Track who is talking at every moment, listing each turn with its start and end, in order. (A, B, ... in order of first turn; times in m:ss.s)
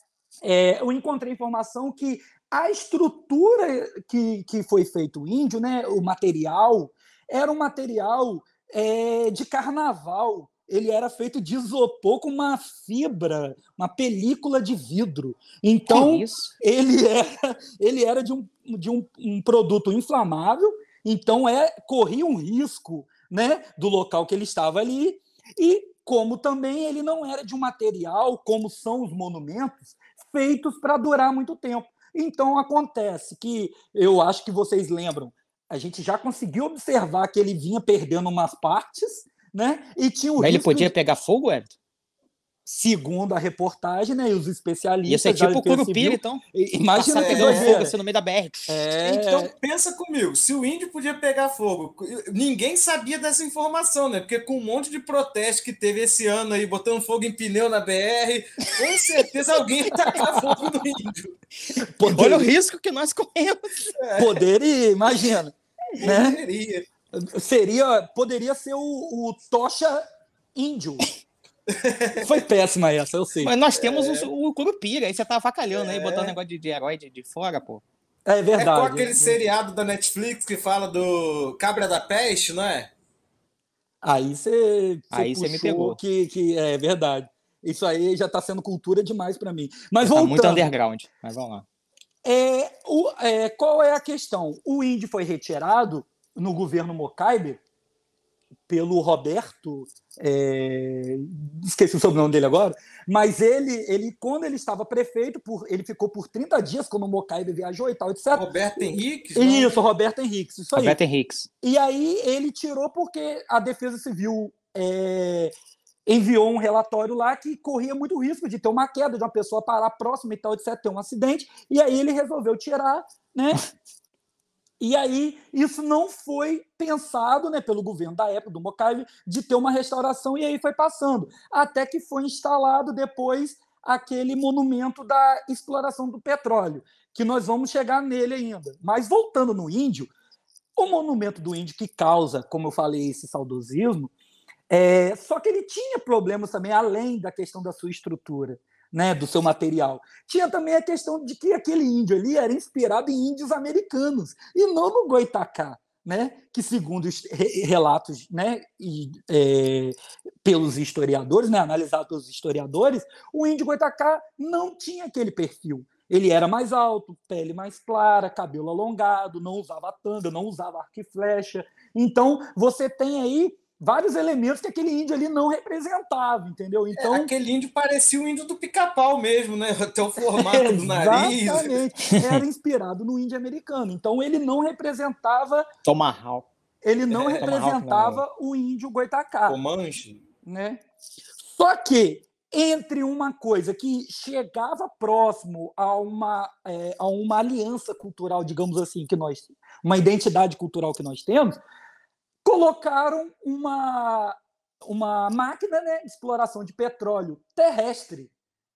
0:00.4-0:40.9 A
0:15.9-0:16.5 B
0:40.4-0:41.7 B
0:42.6-0:47.9 A
0:45.1-0:46.4 B
0:46.9-0:48.8 B
0:47.2-0:47.8 C
0:48.7-0:49.5 A
0:49.0-1:01.4 C
1:01.8-1:02.5 A
1:02.1-1:03.9 B
1:04.0-1:04.4 C
1:04.2-1:06.4 A
1:06.0-1:06.9 C
1:07.1-1:10.0 A
1:10.5-1:11.1 A
1:11.7-1:12.4 C
1:12.2-1:13.5 A
1:13.4-1:17.8 B
1:13.7-1:14.3 C
1:15.7-1:16.3 C
1:18.2-1:19.4 A
1:18.6-1:22.9 C
1:24.0-1:30.6 A
1:25.1-1:26.0 B
1:30.0-1:31.6 B
1:32.2-1:37.6 A
1:38.7-1:48.4 A
1:48.3-1:49.8 C
1:49.3-1:51.0 A
1:50.7-1:51.5 B
1:51.6-1:55.5 A
1:56.0-2:03.6 A
2:04.8-2:20.1 A
2:20.8-2:24.1 A
2:24.7-2:57.3 A
2:57.0-3:01.8 C
3:00.2-3:05.7 A
3:02.1-3:02.4 B
3:05.8-3:06.5 B
3:06.8-3:09.6 A
3:07.1-3:07.5 C
3:07.4-3:08.2 B
3:09.5-3:10.2 C
3:10.4-3:10.8 A
3:11.4-3:21.6 A
3:22.4-3:28.3 A